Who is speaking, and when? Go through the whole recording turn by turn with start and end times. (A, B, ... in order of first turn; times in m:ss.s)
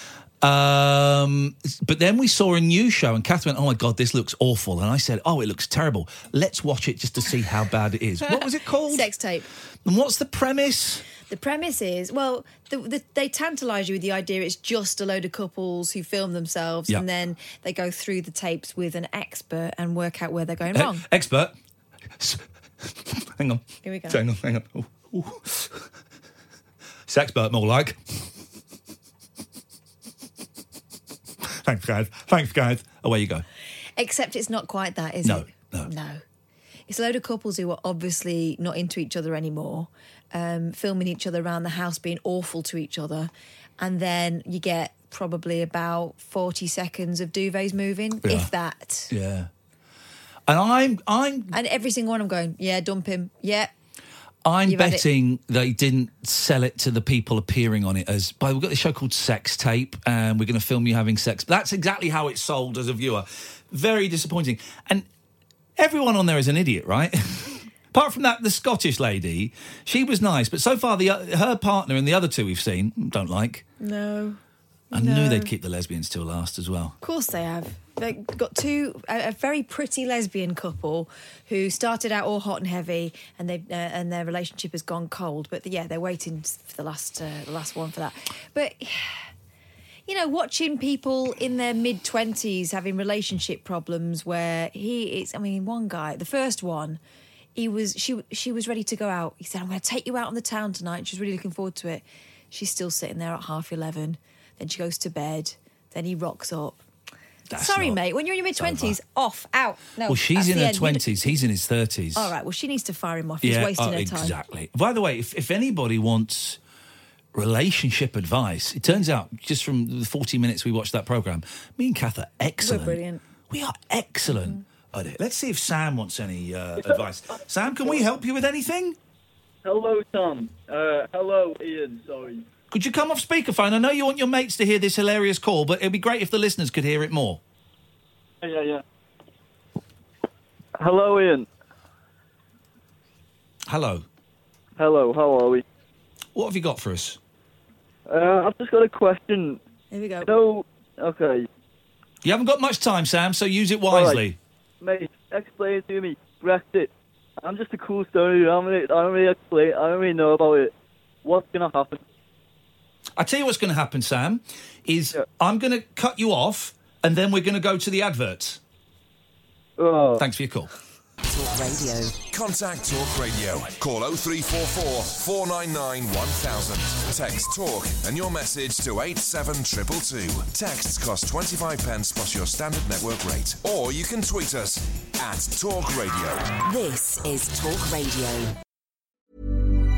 0:00.4-0:09.1 A
0:08.9-0:09.5 B
0:09.8-0:11.0 A
0:11.3-0:21.0 B
0:20.7-0:21.5 A
0:22.2-0:25.8 A
0:23.8-0:24.2 B
0:27.1-0:28.1 A
0:31.5-0:33.4 A
0:34.0-0:36.2 B
0:35.2-0:35.9 A
0:36.9-0:49.1 B
0:48.2-0:48.5 A
0:49.1-0:49.5 A
0:50.5-0:51.5 A
0:51.5-0:53.7 B
0:54.4-1:05.1 A
0:54.7-0:55.0 B
1:05.8-1:13.6 A
1:13.8-1:14.4 B
1:14.9-1:15.5 B
1:14.9-1:17.0 A
1:17.0-1:29.1 B
1:30.1-1:37.0 B
1:37.5-1:46.8 B
1:47.5-1:48.0 A
1:47.5-1:51.3 B
1:48.6-1:49.0 A
1:50.1-1:52.3 A
1:52.1-1:54.4 B
1:53.4-1:56.6 A
1:57.3-2:09.0 A
2:02.6-2:03.2 B
2:04.3-2:04.6 B
2:09.6-2:12.4 C
2:12.7-2:17.4 A
2:18.4-2:18.8 C
2:20.8-2:21.5 C
2:23.7-2:24.0 A
2:24.8-2:25.6 C
2:26.3-2:27.2 A
2:28.1-2:29.6 C
2:29.9-2:30.3 B
2:30.2-2:31.5 C
2:32.2-2:34.4 A
2:33.9-2:34.2 C
2:34.8-2:36.9 C
2:37.4-2:40.7 C
2:41.2-2:42.0 C
2:43.2-2:48.6 A
2:49.8-2:50.2 C
2:50.2-2:50.7 A
2:51.2-2:52.1 D
2:52.3-3:06.4 E
3:06.6-3:08.5 D